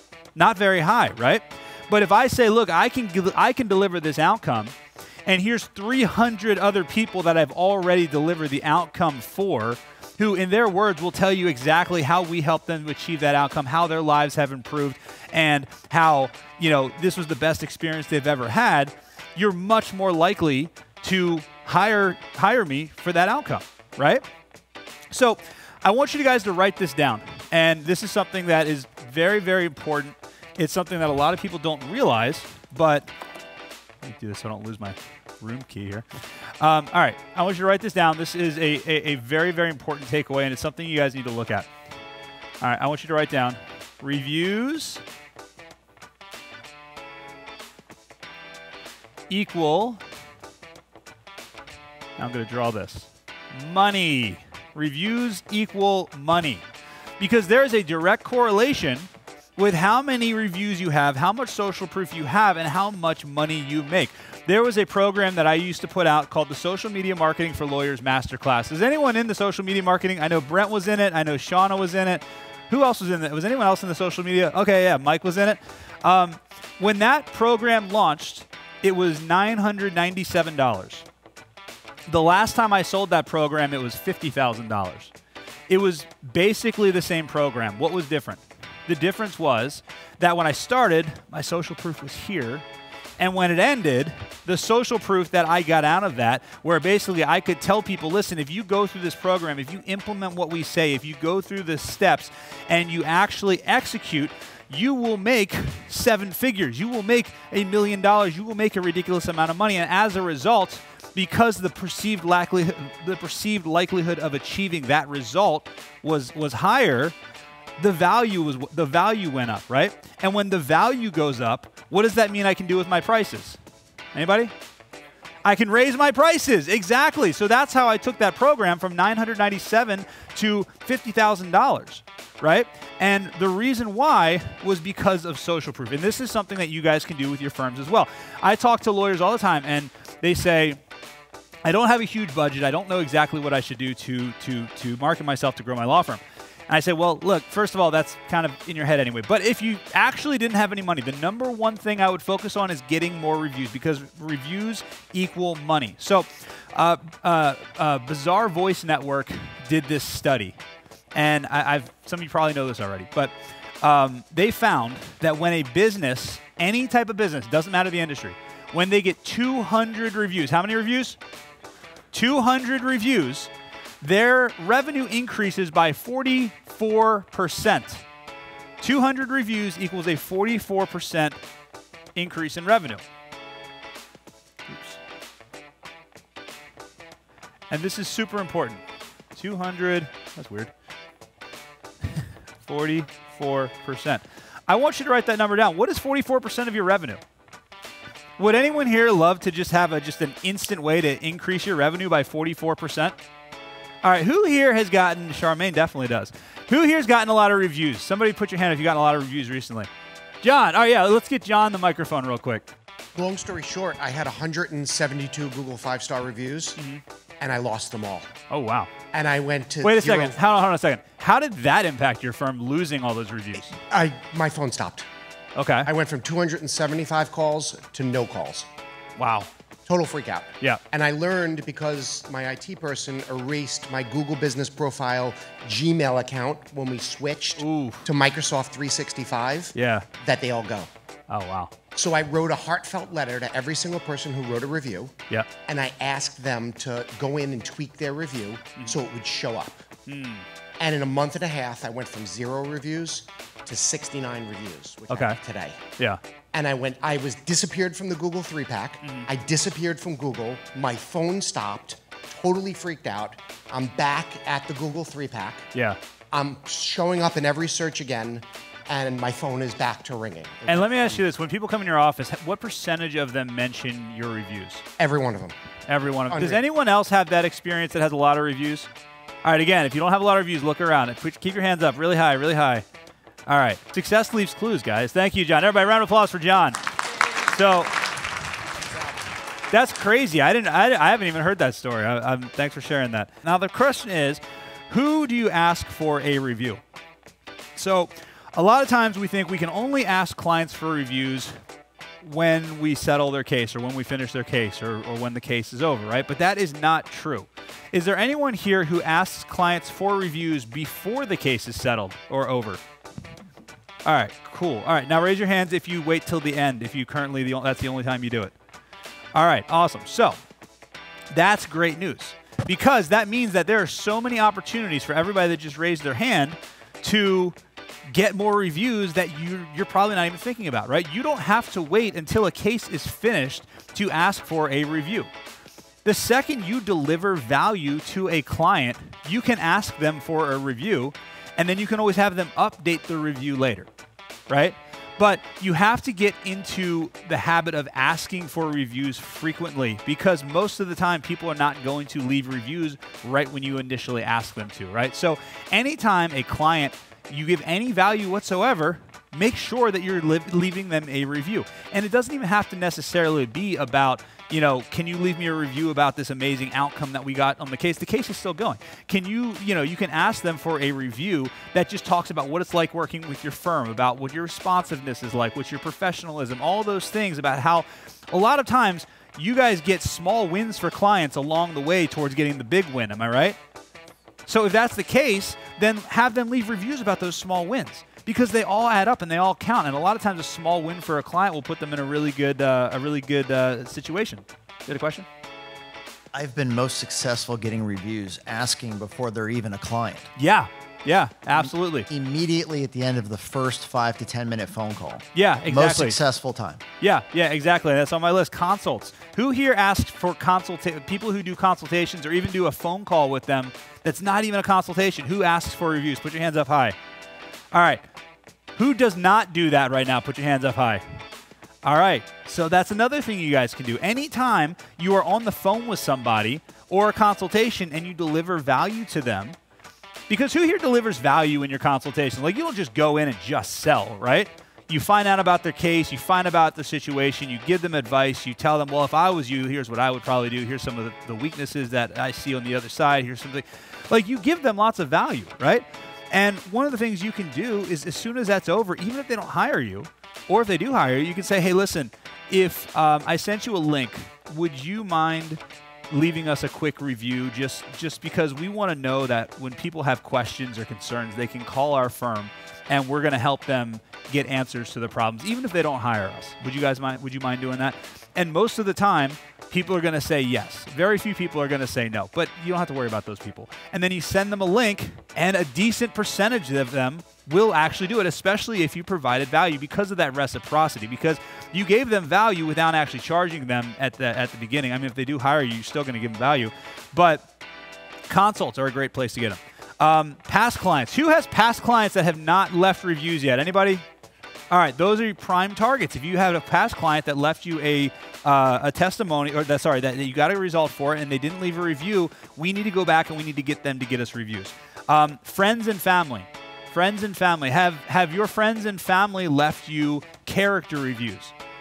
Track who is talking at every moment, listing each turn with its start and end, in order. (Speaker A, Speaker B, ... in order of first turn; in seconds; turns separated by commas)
Speaker A: 0.3-4.8, Speaker A: 5.3-24.3, Speaker A: 25.1-33.1, Speaker A: 34.0-36.1, Speaker A: 36.6-41.7, Speaker A: 42.6-45.0, Speaker A: 49.3-50.0, Speaker A: 52.2-56.6, Speaker A: 57.2-81.1, Speaker A: 82.1-85.1, Speaker A: 85.7-92.7, Speaker A: 93.2-117.2, Speaker A: 117.8-123.6, Speaker A: 124.1-124.5, Speaker A: 125.5-140.8, Speaker A: 141.7-160.6, Speaker A: 161.1-171.2, Speaker A: 172.1-178.1, Speaker A: 178.8-181.4, Speaker A: 182.2-183.0, Speaker A: 184.7-185.0, Speaker A: 187.7-188.8, Speaker A: 189.3-190.7, Speaker A: 192.7-197.2, Speaker A: 198.4-203.2, Speaker A: 204.0-209.9, Speaker A: 210.4-212.7, Speaker B: 213.2-216.8, Speaker A: 216.8-217.0, Speaker B: 217.4-218.3, Speaker A: 218.5-218.9, Speaker B: 219.1-220.4, Speaker A: 219.8-223.8, Speaker B: 223.9-225.1, Speaker A: 225.6-225.9, Speaker B: 225.8-228.7, Speaker A: 229.2-229.5, Speaker B: 229.9-240.9, Speaker A: 237.6-238.1, Speaker A: 239.7-240.1, Speaker A: 241.3-241.7, Speaker B: 241.9-245.1, Speaker B: 245.7-249.8, Speaker A: 250.1-250.4, Speaker B: 250.8-255.8, Speaker A: 255.1-255.4, Speaker B: 256.5-265.7, Speaker A: 259.0-259.3, Speaker B: 266.3-271.2, Speaker A: 270.7-274.8, Speaker B: 275.0-275.5, Speaker A: 275.9-278.9, Speaker B: 276.3-276.6, Speaker A: 279.4-282.9, Speaker A: 283.5-288.0, Speaker A: 289.7-296.8, Speaker A: 297.8-301.5, Speaker A: 302.2-312.8, Speaker A: 314.1-318.5, Speaker A: 319.4-320.4, Speaker A: 321.3-327.6, Speaker A: 328.1-335.3, Speaker A: 336.0-343.9, Speaker A: 344.5-383.6, Speaker A: 384.5-395.3, Speaker C: 396.3-400.3, Speaker A: 400.4-402.1, Speaker C: 401.6-406.8, Speaker A: 405.3-406.2, Speaker A: 407.0-417.0, Speaker A: 417.7-418.0, Speaker A: 418.8-421.0, Speaker A: 421.8-429.6, Speaker A: 430.3-487.5, Speaker A: 488.3-494.0, Speaker A: 494.7-511.5